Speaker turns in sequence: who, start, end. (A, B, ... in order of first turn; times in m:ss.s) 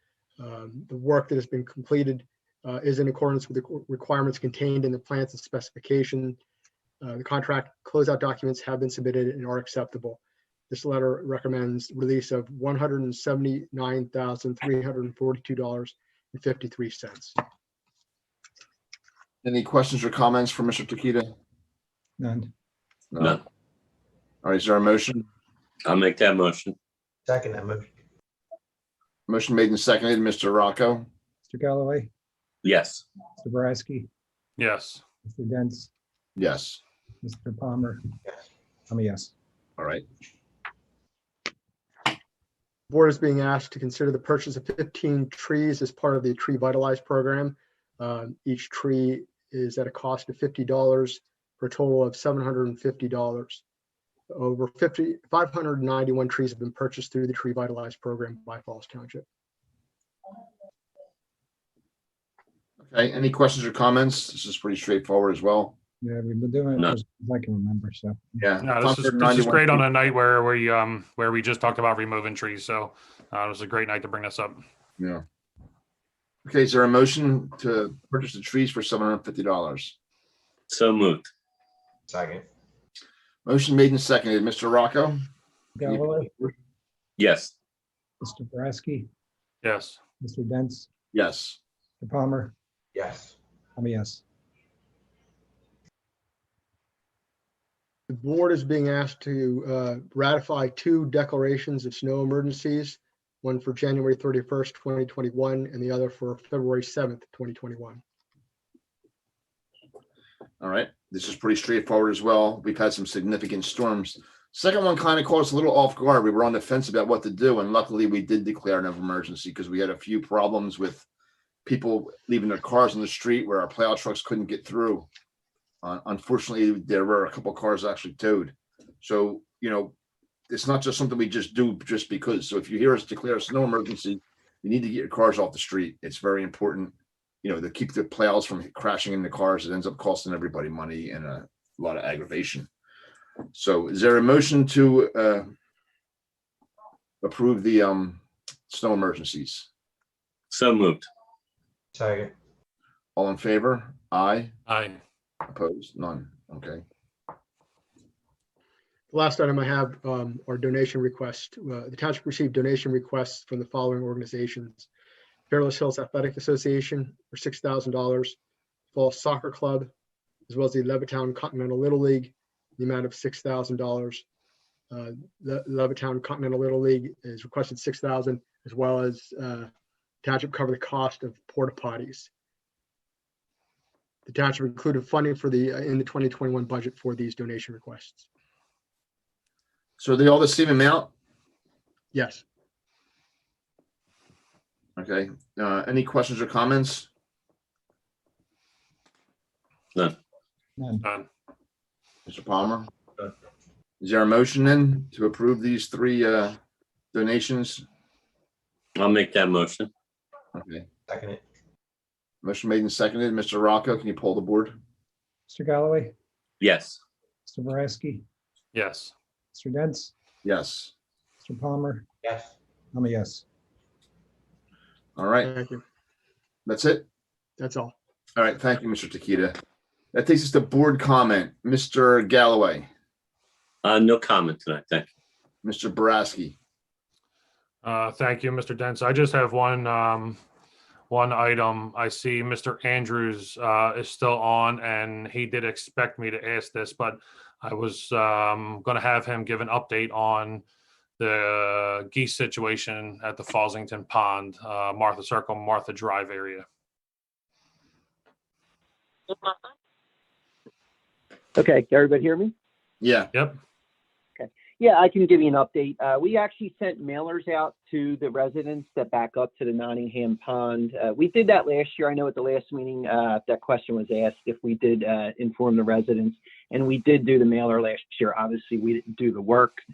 0:00.4-0:06.4 A
0:07.0-0:17.4 A
0:19.4-0:21.3 B
0:22.2-0:22.5 C
0:23.1-0:23.4 B
0:24.4-0:25.2 B
0:25.8-0:26.8 D
0:27.3-0:27.9 E
0:29.3-0:31.1 B
0:31.5-0:32.1 C
0:32.6-0:33.1 D
0:33.4-0:34.1 C
0:34.6-0:35.0 F
0:35.3-0:35.9 C
0:36.4-0:36.8 B
0:37.2-0:38.2 C
0:38.9-0:39.3 C
0:39.8-0:40.0 B
0:42.9-0:53.6 A
0:54.3-0:59.2 A
1:02.8-1:05.8 B
1:06.0-1:08.4 C
1:08.4-1:09.8 B
1:08.6-1:14.6 F
1:16.5-1:20.0 B
1:20.7-1:21.3 D
1:22.1-1:22.5 E
1:23.5-1:25.2 B
1:25.8-1:26.3 C
1:25.9-1:26.5 B
1:27.2-1:27.5 D
1:28.2-1:29.1 C
1:29.6-1:30.0 F
1:30.2-1:30.9 C
1:31.1-1:31.6 B
1:32.0-1:32.5 C
1:32.9-1:33.4 E
1:33.8-1:34.2 C
1:38.1-1:48.0 A
1:50.6-2:01.1 B
2:01.6-2:05.1 B
2:05.8-2:09.9 B
2:10.5-2:22.7 B
2:23.5-2:25.5 B
2:27.2-2:29.7 B
2:30.5-2:31.1 D
2:32.0-2:32.3 E
2:33.2-2:34.5 B
2:34.7-2:35.0 F
2:35.5-2:36.8 B
2:39.1-2:44.9 A
2:45.5-2:48.4 A
2:48.9-2:49.9 A
2:50.5-2:54.2 A
2:54.9-2:59.7 A
3:00.2-3:02.3 A
3:04.3-3:08.3 A
3:10.0-3:11.1 B
3:12.1-3:12.4 A
3:15.0-3:17.1 B
3:20.8-3:21.0 C
3:22.3-3:22.9 B
3:24.0-3:26.6 B
3:27.1-3:27.8 B
3:29.0-3:29.9 D
3:30.5-3:30.9 B
3:31.1-3:31.4 E
3:32.4-3:34.8 B
3:35.5-3:36.1 C
3:36.6-3:37.0 D
3:37.5-3:38.2 C
3:38.7-3:39.1 F
3:39.5-3:40.1 C
3:40.4-3:40.9 B
3:41.4-3:42.1 C
3:42.2-3:42.5 E
3:42.9-3:43.4 C
3:45.2-3:45.5 B
3:45.4-3:45.8 A
3:46.7-3:47.1 B
3:47.6-3:48.0 A
3:48.4-3:49.6 B
3:50.1-3:52.9 B
3:53.8-3:55.1 D
3:55.6-3:56.6 B
3:57.8-4:00.4 F
4:01.1-4:10.6 F
4:11.2-4:16.6 F
4:21.6-4:22.5 G
4:23.0-4:23.3 B
4:24.4-4:39.8 G